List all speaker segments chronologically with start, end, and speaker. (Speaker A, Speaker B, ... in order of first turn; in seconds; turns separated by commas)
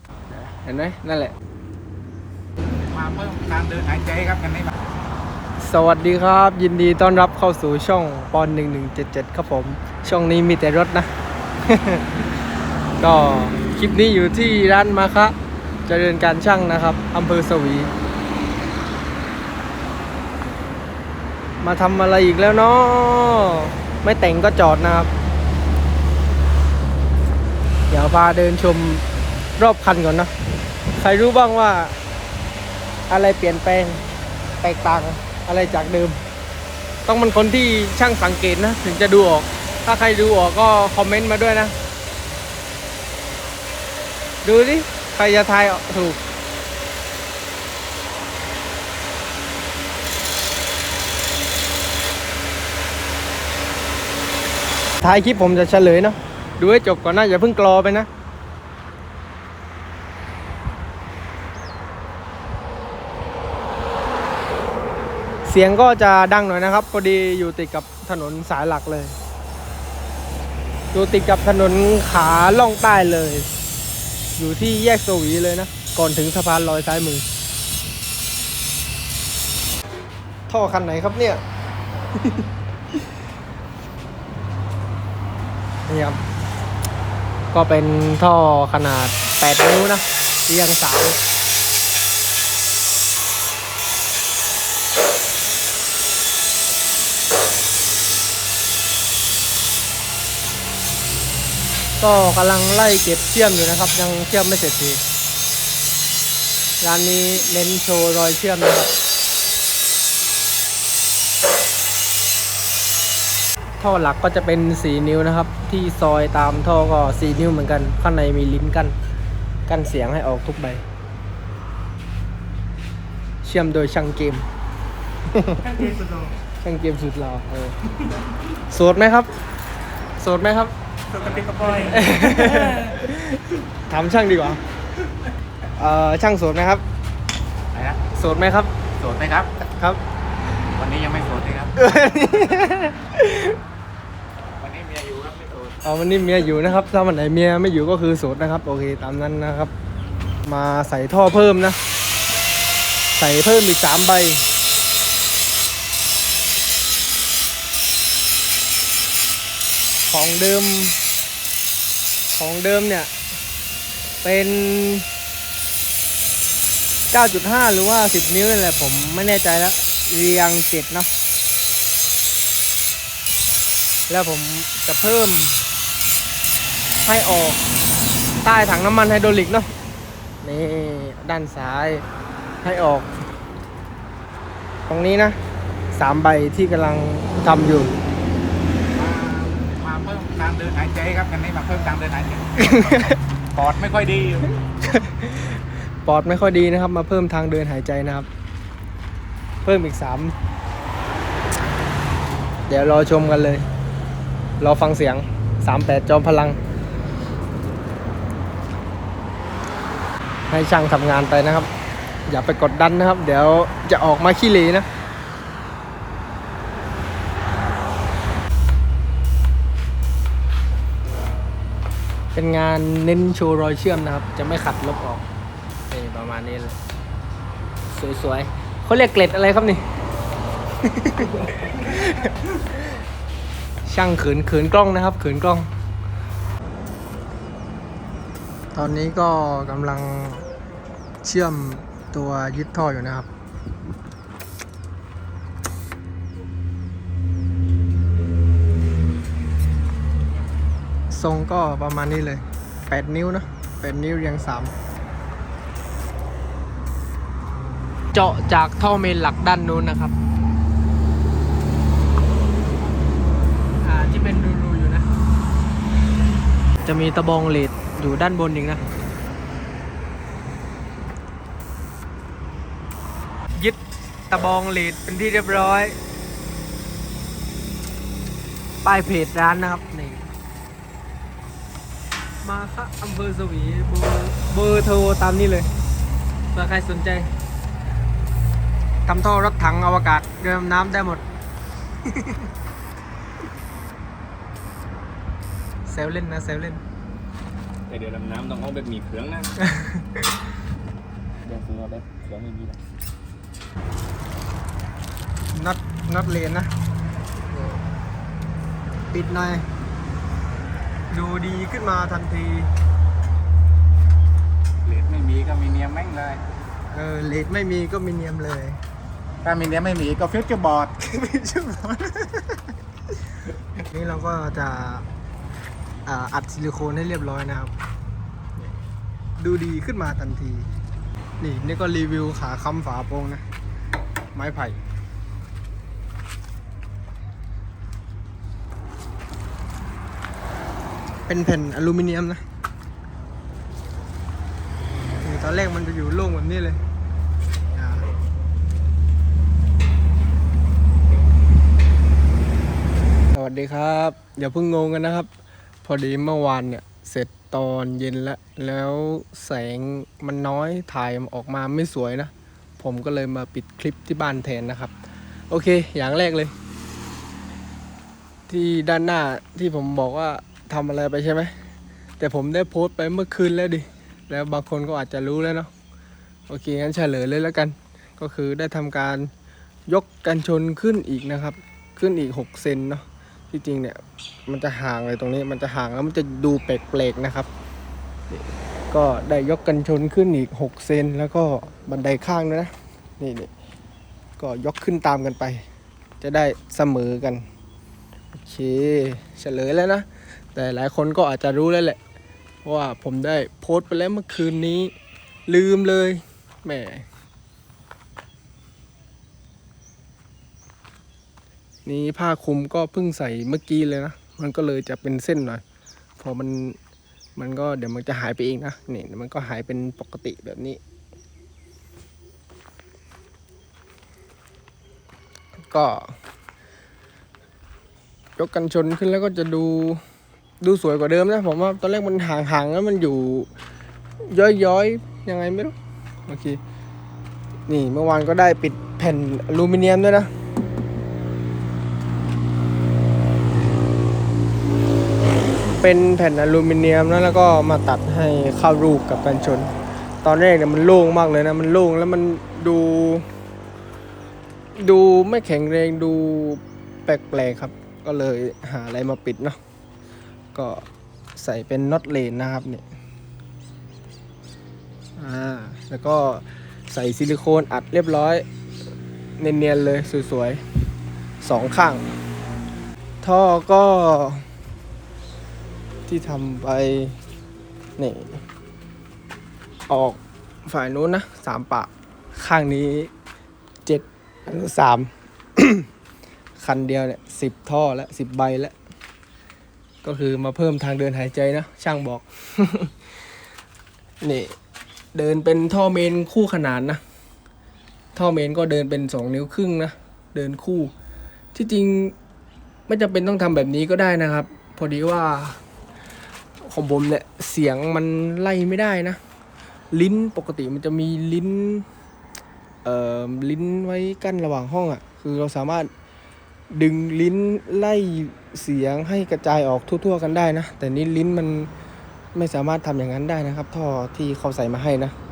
Speaker A: 0.4-1.4, Speaker B: 2.8-4.8, Speaker A: 5.6-11.1, Speaker A: 11.7-12.3, Speaker A: 13.0-17.9, Speaker A: 21.6-25.1, Speaker A: 27.9-29.1, Speaker A: 29.6-30.3, Speaker A: 30.9-31.9, Speaker A: 33.1-34.0, Speaker A: 34.6-36.2, Speaker A: 37.1-41.7, Speaker A: 44.4-46.2, Speaker A: 55.0-58.1, Speaker A: 65.5-69.2, Speaker A: 70.9-73.5, Speaker A: 74.4-77.2, Speaker A: 80.5-81.4, Speaker A: 82.1-82.5, Speaker A: 85.9-86.2, Speaker A: 87.5-91.2, Speaker A: 102.0-105.0, Speaker A: 106.8-108.9, Speaker A: 113.8-119.0, Speaker A: 119.7-120.8, Speaker A: 123.4-124.5, Speaker A: 125.3-126.0, Speaker A: 126.6-128.0, Speaker A: 128.5-129.3, Speaker A: 130.2-130.8, Speaker B: 131.2-132.0, Speaker A: 131.7-134.6, Speaker A: 135.8-136.8, Speaker B: 137.7-138.0, Speaker A: 138.1-138.7, Speaker B: 139.0-139.5, Speaker A: 139.6-140.0, Speaker B: 140.5-141.7, Speaker A: 141.8-143.6, Speaker B: 144.6-145.8, Speaker A: 145.8-149.7, Speaker A: 150.5-151.8, Speaker A: 153.2-154.4, Speaker A: 160.1-161.0, Speaker A: 162.3-163.1, Speaker A: 164.2-165.1, Speaker A: 167.1-171.1, Speaker A: 174.1-175.7, Speaker A: 177.0-177.6, Speaker A: 178.4-179.7, Speaker A: 180.4-182.1, Speaker A: 182.6-183.1, Speaker A: 184.9-185.4, Speaker A: 185.9-187.9, Speaker B: 188.9-194.6, Speaker A: 192.6-193.2, Speaker A: 194.8-198.3, Speaker A: 199.6-200.4, Speaker A: 202.7-203.7, Speaker A: 204.6-206.6, Speaker A: 210.5-211.7, Speaker A: 212.3-214.9, Speaker A: 222.3-225.3, Speaker A: 225.9-226.8, Speaker A: 227.9-229.9, Speaker A: 230.8-233.0, Speaker A: 233.8-235.7, Speaker A: 238.7-240.5, Speaker A: 241.2-243.3, Speaker A: 251.1-254.8, Speaker A: 258.1-260.1, Speaker A: 263.8-265.1, Speaker A: 266.8-268.8, Speaker A: 273.6-276.0, Speaker A: 278.8-280.3, Speaker A: 282.4-285.7, Speaker A: 286.5-287.3, Speaker A: 289.1-291.2, Speaker A: 292.1-292.4, Speaker A: 295.9-296.8, Speaker C: 297.9-299.5, Speaker A: 299.6-300.1, Speaker C: 301.4-302.8, Speaker A: 305.5-306.7, Speaker A: 309.1-309.7, Speaker A: 311.1-312.7, Speaker B: 314.8-316.4, Speaker A: 316.9-318.8, Speaker B: 319.4-321.0, Speaker A: 321.0-322.7, Speaker A: 323.8-325.1, Speaker A: 326.1-327.7, Speaker A: 328.6-328.8, Speaker A: 329.4-330.7, Speaker A: 331.4-333.4, Speaker A: 334.4-334.8, Speaker A: 341.3-342.4, Speaker A: 345.2-346.8, Speaker A: 347.7-348.1, Speaker A: 353.3-355.3, Speaker A: 355.8-364.9, Speaker A: 365.5-366.5, Speaker A: 368.5-371.5, Speaker A: 372.2-375.7, Speaker A: 376.5-379.3, Speaker A: 379.9-387.5, Speaker A: 388.3-393.5, Speaker A: 394.4-395.6, Speaker A: 396.2-397.4, Speaker A: 398.3-402.0, Speaker A: 402.6-404.9, Speaker A: 405.5-407.1, Speaker A: 411.9-415.6, Speaker A: 416.2-416.8, Speaker A: 417.4-420.8, Speaker A: 425.7-426.2, Speaker A: 428.4-430.0, Speaker A: 430.6-433.5, Speaker A: 434.3-436.6, Speaker A: 437.7-440.3, Speaker A: 445.8-453.3, Speaker A: 454.8-459.6, Speaker A: 460.5-462.8, Speaker A: 465.2-468.4, Speaker A: 469.4-470.6, Speaker A: 471.4-472.1, Speaker A: 473.2-474.5, Speaker A: 476.1-477.2, Speaker A: 478.0-478.4, Speaker A: 479.9-483.1, Speaker A: 483.9-485.9, Speaker A: 486.6-488.8, Speaker A: 490.0-492.9, Speaker A: 494.2-494.6, Speaker A: 495.1-497.0, Speaker A: 498.1-500.9, Speaker A: 501.5-502.1, Speaker A: 502.9-505.6, Speaker A: 506.6-509.2, Speaker A: 509.9-511.9, Speaker A: 512.8-515.9, Speaker A: 516.7-521.7, Speaker A: 522.4-525.1